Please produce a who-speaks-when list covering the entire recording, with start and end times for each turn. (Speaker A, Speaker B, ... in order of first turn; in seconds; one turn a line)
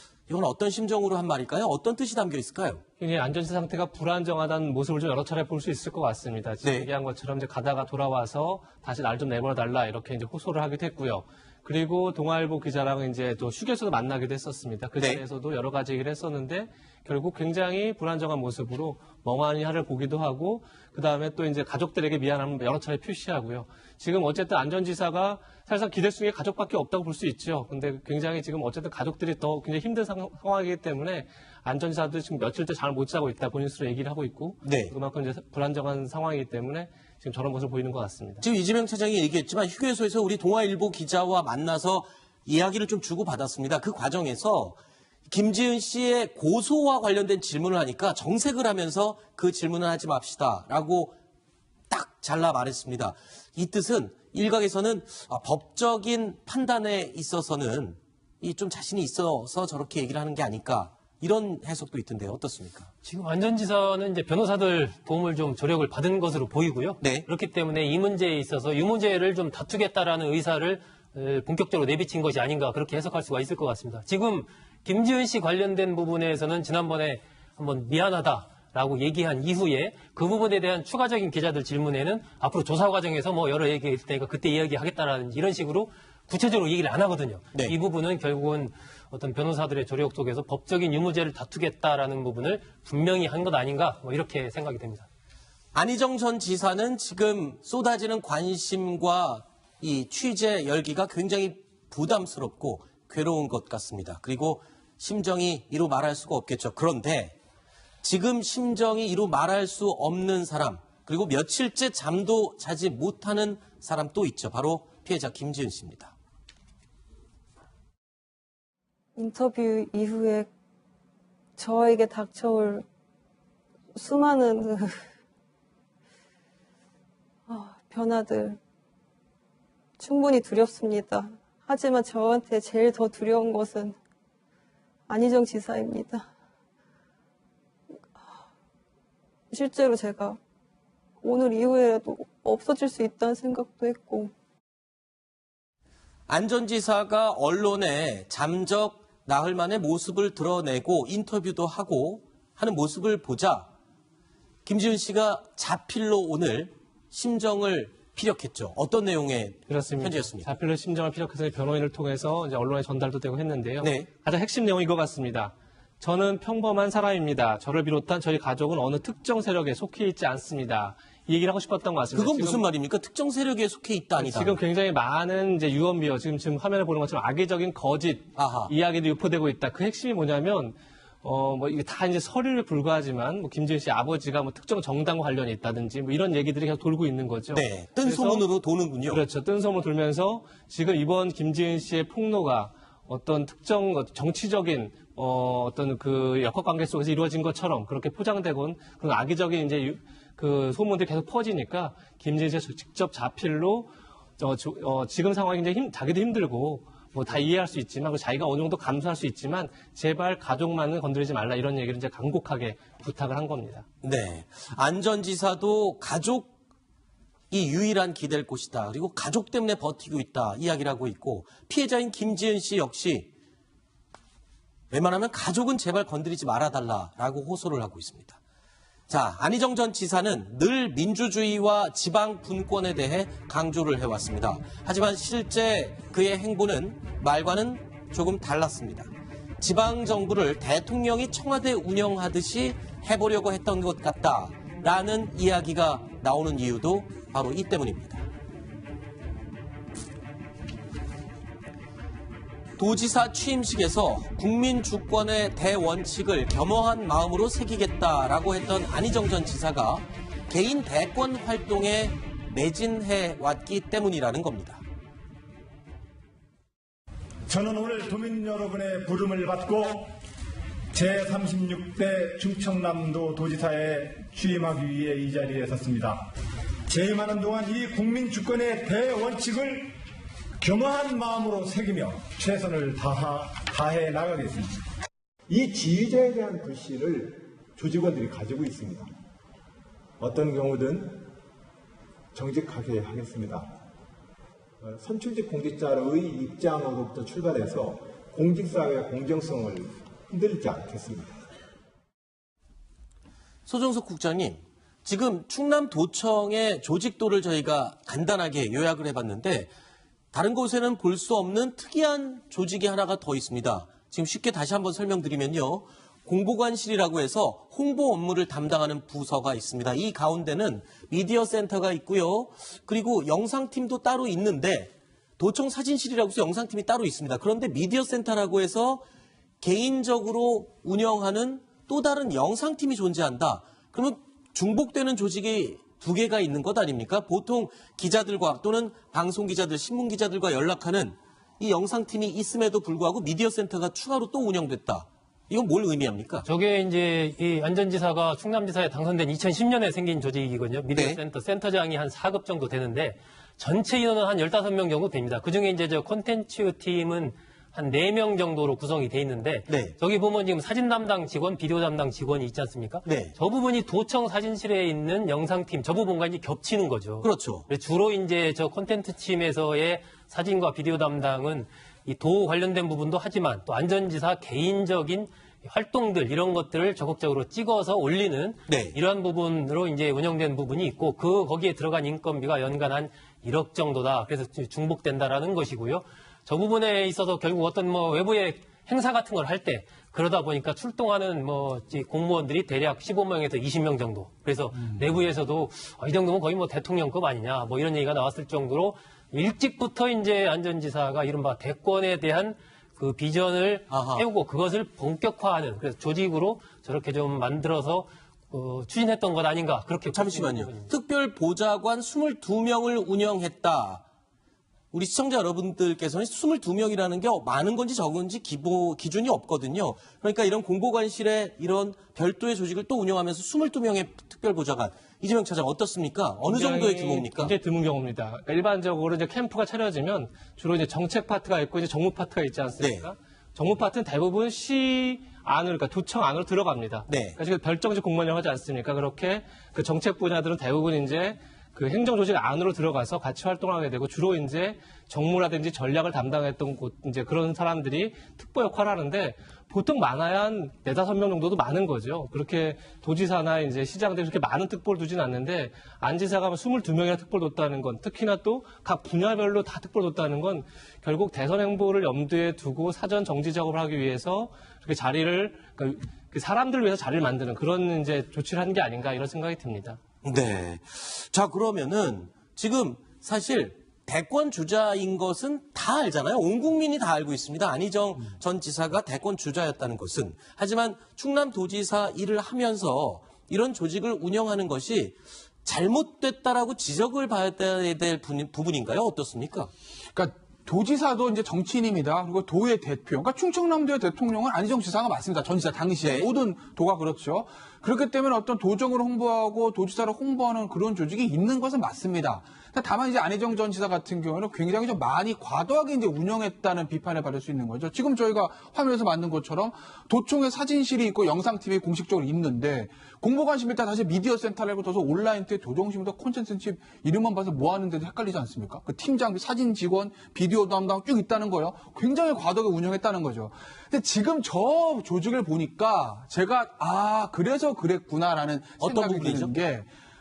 Speaker A: 0.3-2.8
Speaker B: 3.0-38.4
Speaker A: 6.6-6.9
Speaker A: 34.6-34.9
Speaker A: 38.4-51.1
Speaker A: 51.9-62.9
Speaker C: 63.0-95.1
Speaker A: 67.0-67.2
Speaker A: 95.7-107.3
Speaker A: 108.0-116.1
Speaker D: 119.1-120.5
Speaker D: 121.6-122.8
Speaker D: 123.9-124.9
Speaker D: 127.5-128.6
Speaker D: 130.0-134.0
Speaker D: 135.1-136.2
Speaker D: 139.5-140.4
Speaker D: 141.2-144.3
Speaker A: 146.3-153.7
Speaker A: 154.6-160.5
Speaker B: 159.7-172.7
Speaker A: 163.8-164.1
Speaker A: 172.1-174.6
Speaker B: 174.2-188.5
Speaker A: 178.3-178.7
Speaker A: 187.5-189.2
Speaker B: 189.0-213.8
Speaker A: 214.0-216.5
Speaker A: 217.5-223.3
Speaker A: 224.9-228.4
Speaker A: 229.1-248.2
Speaker A: 252.8-264.8
Speaker E: 267.5-270.1
Speaker E: 270.9-276.3
Speaker E: 276.9-279.9
Speaker E: 280.6-284.7
Speaker E: 285.5-289.1
Speaker E: 290.2-291.2
Speaker E: 292.3-293.7
Speaker E: 294.8-301.4
Speaker A: 303.7-309.7
Speaker A: 310.3-329.0
Speaker A: 329.6-346.4
Speaker C: 346.4-410.9
Speaker A: 350.9-351.2
Speaker A: 359.7-359.9
Speaker A: 363.0-363.3
Speaker A: 367.2-367.7
Speaker A: 378.7-378.9
Speaker A: 403.9-404.2
Speaker A: 410.1-414.0
Speaker A: 414.9-427.5
Speaker B: 426.4-470.0
Speaker A: 432.8-433.1
Speaker A: 437.1-437.4
Speaker A: 470.2-489.7
Speaker F: 490.1-529.9
Speaker A: 496.0-496.3
Speaker A: 528.8-529.6